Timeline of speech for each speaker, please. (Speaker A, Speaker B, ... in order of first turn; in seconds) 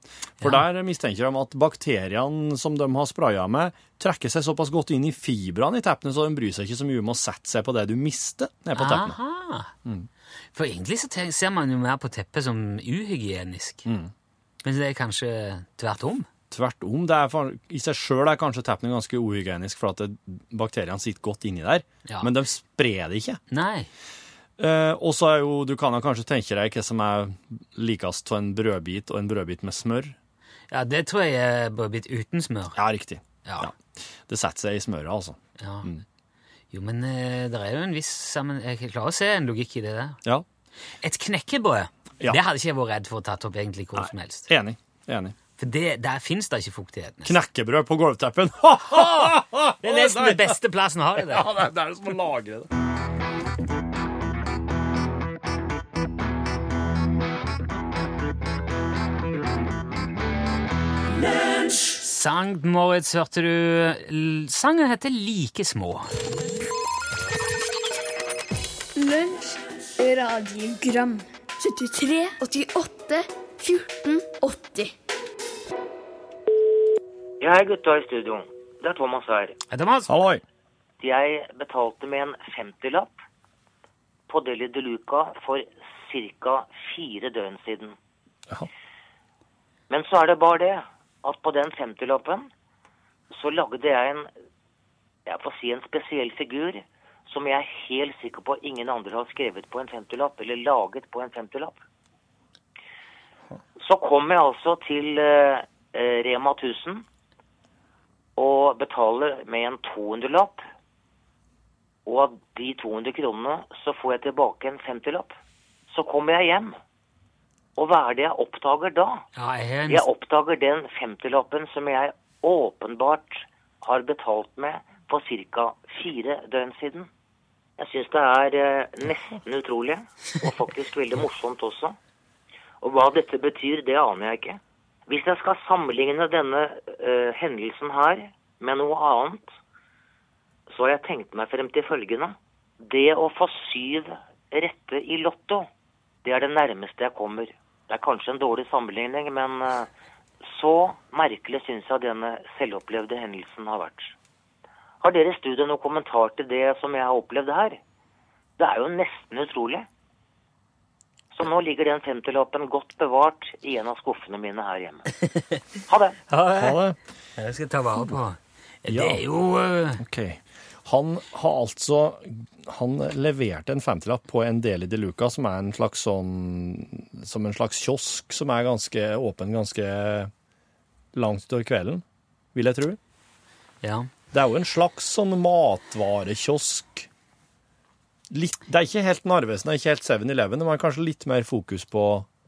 Speaker A: 0.4-9.2, 13.9-14.1, 16.5-23.4, 24.6-30.1, 32.8-36.0, 44.0-45.4, 47.2-50.6, 51.2-52.7, 80.1-80.4, 166.6-167.0, 168.9-169.2, 170.0-180.3, 181.1-183.0, 184.3-187.1, 188.3-192.3
Speaker B: 8.8-9.7, 10.5-13.9, 14.6-16.3, 23.5-23.9, 30.7-32.8, 33.5-33.7, 35.6-35.9, 36.7-40.2, 41.0-44.5, 45.6-47.4, 49.8-51.5, 62.0-66.1, 79.7-80.1, 119.4-120.0, 165.3-165.6, 166.3-166.8, 167.4-170.0, 183.8-184.1
Speaker C: 69.0-74.9
Speaker D: 77.4-79.6, 81.0-83.1, 84.3-88.0, 89.9-92.5, 93.3-94.3, 95.3-101.8, 103.8-107.0, 108.4-110.6, 112.1-115.3, 115.9-116.8, 117.8-119.3, 119.9-127.1, 127.8-132.0, 132.8-139.5, 140.7-145.7, 146.2-149.9, 150.5-154.2, 155.0-157.8, 158.6-159.9, 161.3-165.1, 165.9-166.2